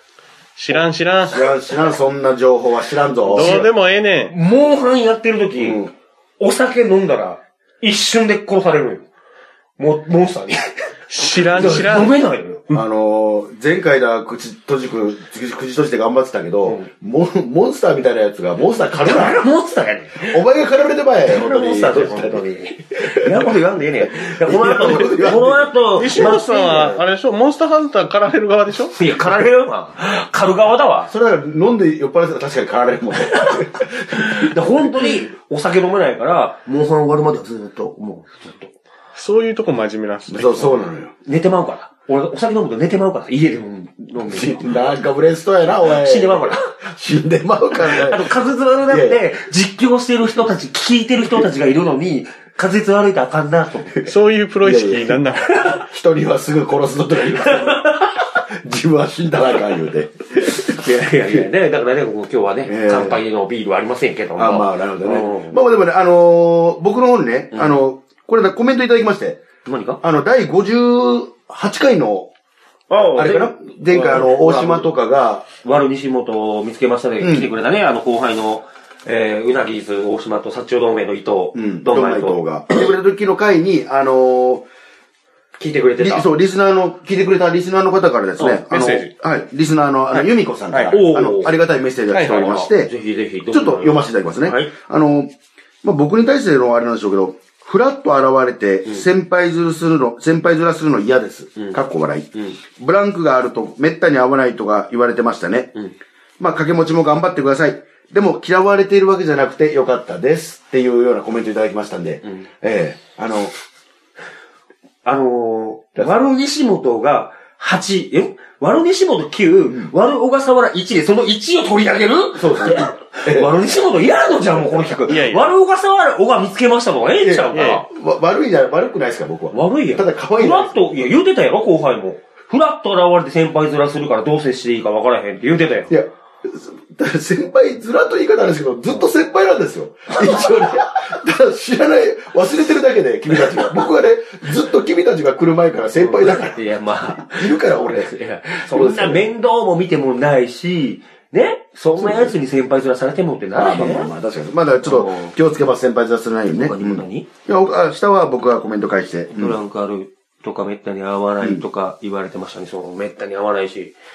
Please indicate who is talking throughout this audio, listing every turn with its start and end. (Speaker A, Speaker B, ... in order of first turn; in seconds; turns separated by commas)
Speaker A: 0.6-1.5, Speaker B: 1.3-3.7, Speaker A: 3.2-4.3, Speaker C: 3.4-3.6, Speaker C: 4.2-5.8, Speaker B: 5.6-5.9, Speaker C: 6.4-9.1, Speaker C: 9.8-12.6, Speaker A: 11.1-12.2, Speaker B: 12.7-19.4, Speaker C: 16.6-16.9, Speaker C: 19.0-20.4, Speaker B: 20.2-22.5, Speaker C: 21.2-26.9, Speaker B: 23.0-23.5, Speaker B: 24.1-27.0, Speaker A: 26.0-29.0, Speaker C: 28.9-31.1, Speaker B: 31.1-35.3, Speaker C: 33.2-38.7, Speaker A: 39.1-40.8, Speaker B: 40.3-41.1, Speaker C: 41.2-44.8, Speaker B: 44.2-48.3, Speaker C: 45.7-46.8, Speaker C: 47.7-54.1, Speaker B: 48.9-49.2, Speaker B: 53.9-61.5, Speaker A: 54.1-55.7, Speaker C: 57.4-58.1, Speaker C: 60.5-65.6, Speaker B: 62.7-63.2, Speaker B: 64.4-69.4, Speaker C: 69.7-70.0, Speaker B: 70.0-72.3, Speaker C: 72.9-74.9, Speaker B: 73.1-75.5, Speaker C: 75.6-82.4, Speaker B: 77.2-77.5, Speaker B: 81.5-84.7, Speaker C: 85.6-86.3, Speaker B: 86.0-92.9, Speaker A: 88.4-89.1, Speaker A: 90.1-91.0, Speaker C: 90.9-91.5, Speaker A: 92.1-92.6, Speaker C: 92.5-94.7, Speaker B: 93.5-95.3, Speaker B: 95.8-105.7, Speaker B: 106.4-113.5, Speaker C: 115.0-127.8, Speaker B: 119.7-119.9, Speaker B: 122.4-123.6, Speaker A: 125.1-125.5, Speaker B: 127.2-130.7, Speaker A: 127.5-127.8, Speaker C: 129.5-135.9, Speaker B: 135.9-149.3, Speaker C: 146.0-154.1, Speaker B: 152.0-152.3, Speaker B: 153.6-159.6, Speaker C: 154.8-155.4, Speaker C: 156.5-157.3, Speaker C: 159.3-163.9, Speaker B: 161.4-161.7